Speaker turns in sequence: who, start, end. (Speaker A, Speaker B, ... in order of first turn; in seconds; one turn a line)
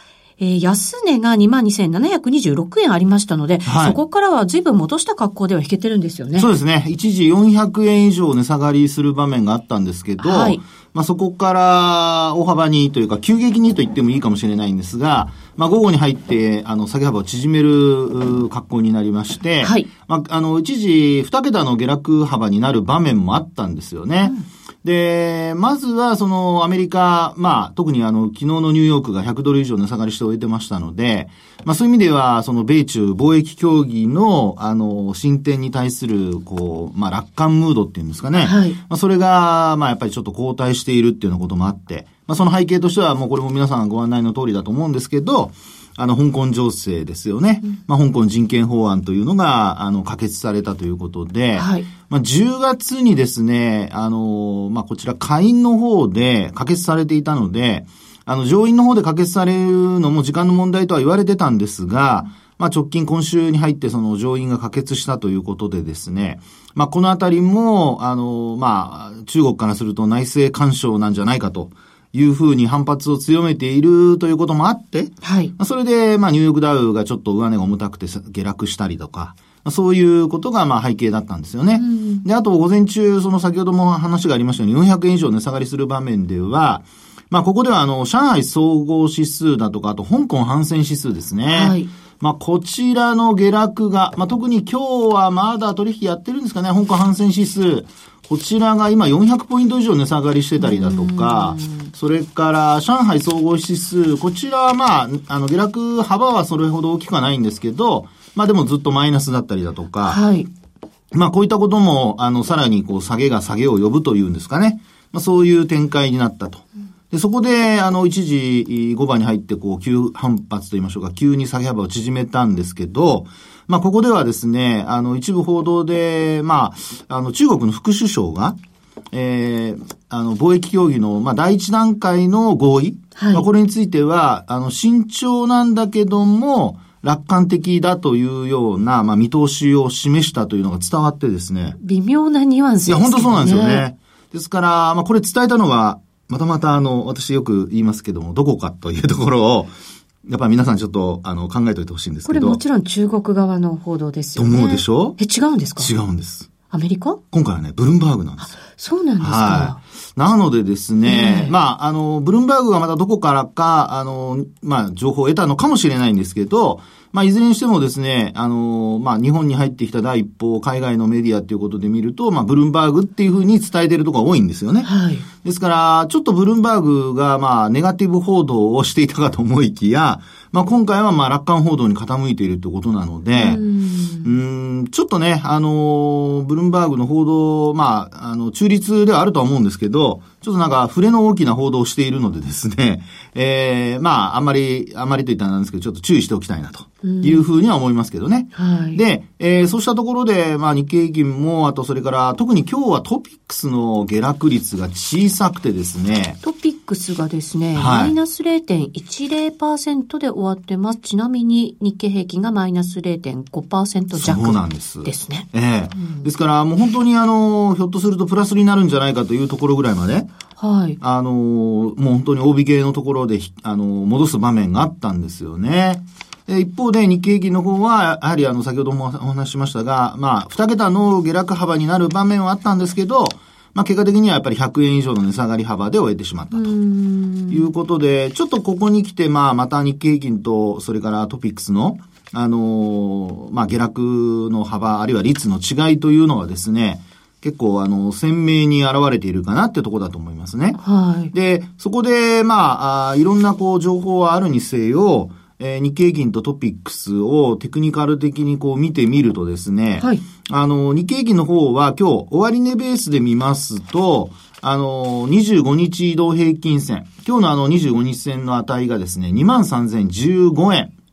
Speaker A: 0.4-6.5
Speaker B: 3.6-4.0
Speaker B: 6.4-110.2
Speaker A: 10.2-10.6
Speaker A: 19.6-19.9
Speaker A: 38.4-38.8
Speaker A: 51.6-51.9
Speaker A: 75.2-75.5
Speaker A: 81.8-82.2
Speaker A: 91.5-91.9
Speaker A: 100.6-101.9
Speaker A: 110.0-110.5
Speaker B: 111.1-128.6
Speaker B: 129.1-141.8
Speaker A: 133.2-133.5
Speaker A: 141.8-143.9
Speaker B: 142.9-149.7
Speaker B: 150.2-152.6
Speaker A: 152.3-155.9
Speaker B: 154.4-155.2
Speaker B: 155.8-156.5
Speaker A: 156.7-157.2
Speaker B: 157.3-158.6
Speaker A: 158.4-159.8
Speaker B: 159.2-174.9
Speaker A: 161.1-161.5
Speaker A: 174.8-175.3
Speaker B: 175.4-183.7
Speaker A: 183.4-184.3
Speaker B: 184.2-206.4
Speaker A: 197.0-197.4
Speaker A: 198.6-199.0
Speaker A: 206.4-216.3
Speaker B: 207.8-208.2
Speaker B: 214.1-220.3
Speaker A: 220.6-221.0
Speaker B: 221.0-236.7
Speaker A: 236.5-237.7
Speaker B: 237.5-250.8
Speaker A: 250.8-251.3
Speaker B: 251.3-270.9